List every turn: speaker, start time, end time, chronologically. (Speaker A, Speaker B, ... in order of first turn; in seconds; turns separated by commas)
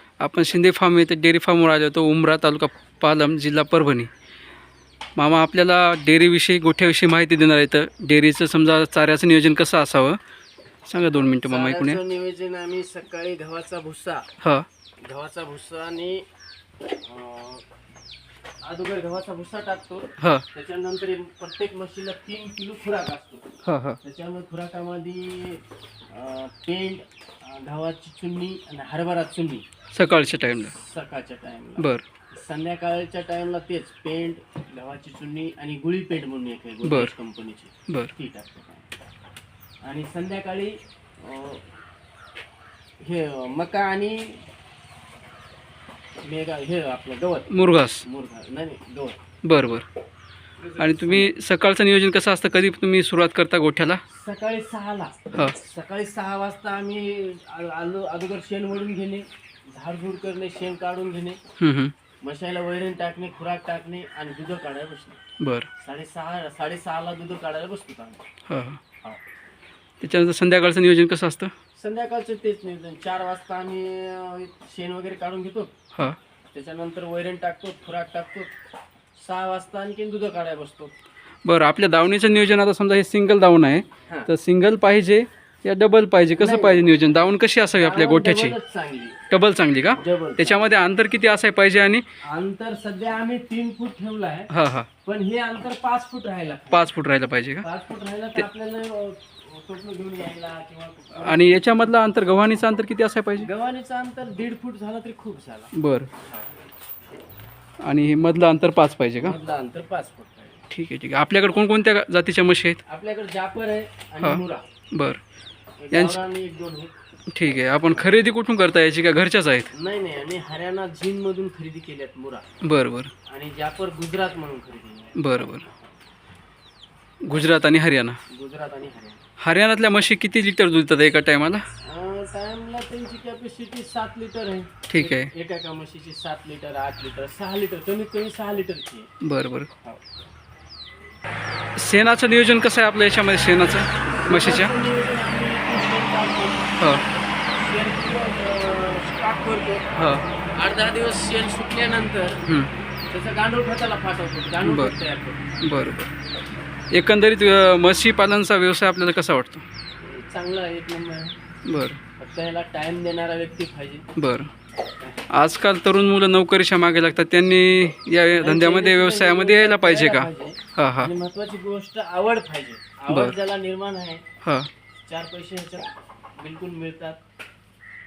Speaker A: 0.2-4.1, Speaker A: 5.2-10.2, Speaker A: 10.8-12.0, Speaker B: 11.3-14.2, Speaker A: 14.4-14.7, Speaker B: 15.0-16.2, Speaker B: 17.0-17.6, Speaker B: 18.6-23.5, Speaker A: 20.2-20.4, Speaker A: 23.6-24.0, Speaker B: 24.0-29.6, Speaker A: 29.9-30.7, Speaker B: 30.5-38.9, Speaker A: 31.8-32.0, Speaker A: 36.8-37.1, Speaker B: 39.8-41.6, Speaker B: 43.0-44.4, Speaker B: 46.2-49.2, Speaker A: 47.5-48.0, Speaker A: 49.4-49.8, Speaker B: 50.6-51.3, Speaker A: 50.8-54.0, Speaker B: 54.1-61.4, Speaker A: 61.6-61.9, Speaker B: 62.2-65.2, Speaker A: 65.4-65.7, Speaker B: 65.8-68.2, Speaker A: 68.5-68.8, Speaker A: 70.0-71.5, Speaker B: 71.8-75.7, Speaker B: 76.5-78.5, Speaker B: 79.2-80.9, Speaker A: 81.4-88.5, Speaker B: 86.4-86.9, Speaker B: 87.7-89.2, Speaker A: 89.3-92.0, Speaker B: 89.9-90.6, Speaker B: 92.2-94.5, Speaker A: 94.5-94.9, Speaker B: 95.0-96.9, Speaker A: 96.7-97.6, Speaker B: 97.6-101.8, Speaker A: 101.2-103.5, Speaker B: 103.3-106.5, Speaker A: 105.7-106.1, Speaker A: 107.8-109.4, Speaker B: 109.2-110.6, Speaker A: 110.7-112.8, Speaker B: 112.8-114.6, Speaker A: 114.2-115.2, Speaker B: 115.8-116.9, Speaker A: 115.9-116.2, Speaker A: 117.3-119.7, Speaker B: 119.7-122.4, Speaker A: 122.6-123.1, Speaker B: 123.2-125.2, Speaker A: 125.2-125.7, Speaker A: 127.2-128.2, Speaker B: 128.3-129.2, Speaker A: 129.4-131.7, Speaker B: 131.8-139.1, Speaker A: 134.9-135.3, Speaker A: 139.2-139.7, Speaker A: 141.8-144.7, Speaker B: 144.2-146.9, Speaker A: 146.8-147.0, Speaker B: 147.6-149.9, Speaker A: 149.9-150.2, Speaker B: 150.6-152.4, Speaker B: 153.1-155.6, Speaker A: 154.6-154.9, Speaker A: 155.6-156.1, Speaker A: 156.9-159.6, Speaker B: 160.0-161.3, Speaker A: 161.7-162.0, Speaker B: 162.2-164.1, Speaker A: 164.2-164.5, Speaker A: 165.3-171.1, Speaker B: 168.4-174.2, Speaker A: 173.1-173.4, Speaker A: 174.4-174.7, Speaker B: 175.1-177.2